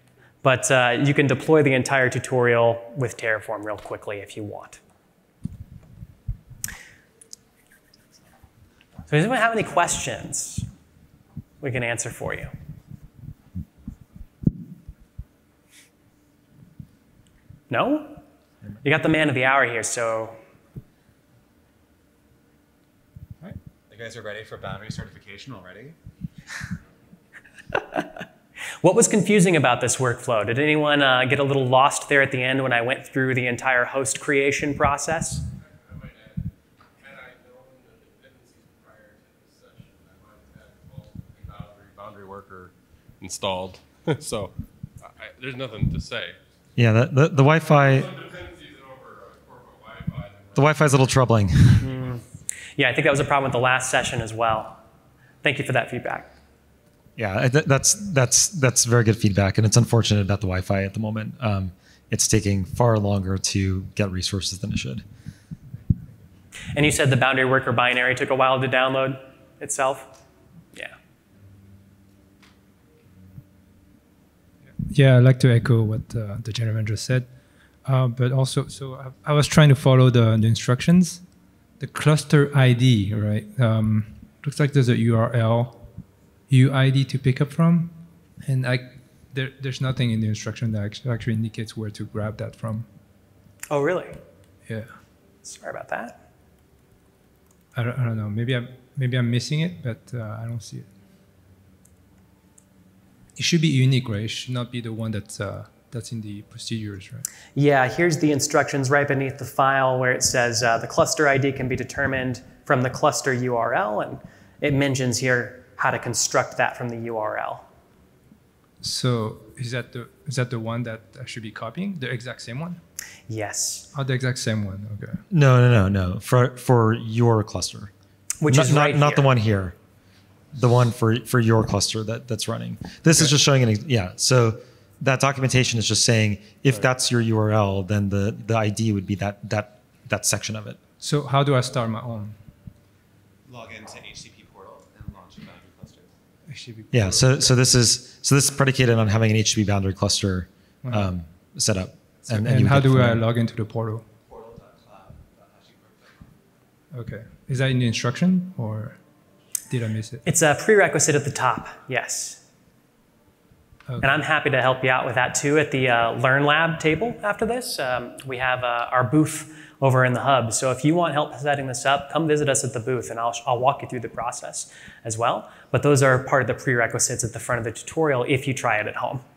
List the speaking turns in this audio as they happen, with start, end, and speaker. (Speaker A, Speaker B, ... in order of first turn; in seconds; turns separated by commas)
Speaker A: 0.4-4.8, Speaker A: 9.1-10.7, Speaker A: 11.6-12.5, Speaker A: 17.7-18.2, Speaker A: 18.8-20.4, Speaker B: 23.9-25.9, Speaker A: 28.8-35.5, Speaker C: 35.6-46.4, Speaker D: 46.8-48.1, Speaker C: 47.7-50.9, Speaker D: 50.5-51.9, Speaker A: 51.8-52.2, Speaker A: 52.8-54.8, Speaker A: 55.4-56.3, Speaker D: 57.2-65.0, Speaker A: 66.8-70.1, Speaker E: 74.8-77.3, Speaker E: 77.8-81.2, Speaker E: 81.8-85.9, Speaker E: 86.5-92.9, Speaker A: 93.7-94.2, Speaker E: 94.7-95.0, Speaker A: 95.4-96.2, Speaker E: 97.8-100.9, Speaker E: 103.4-107.3, Speaker A: 107.6-117.7, Speaker E: 118.8-122.8, Speaker A: 123.3-123.9, Speaker E: 123.9-125.2, Speaker D: 125.3-127.9, Speaker A: 128.4-129.3, Speaker D: 128.5-129.8, Speaker D: 130.5-140.8, Speaker E: 141.0-142.4, Speaker B: 143.5-146.1, Speaker E: 146.5-147.5, Speaker D: 146.9-153.2, Speaker E: 150.8-151.1, Speaker E: 152.3-154.1, Speaker B: 154.2-156.3, Speaker E: 156.9-159.0, Speaker E: 159.7-160.2, Speaker A: 160.2-162.4, Speaker E: 163.9-164.2, Speaker A: 164.0-179.2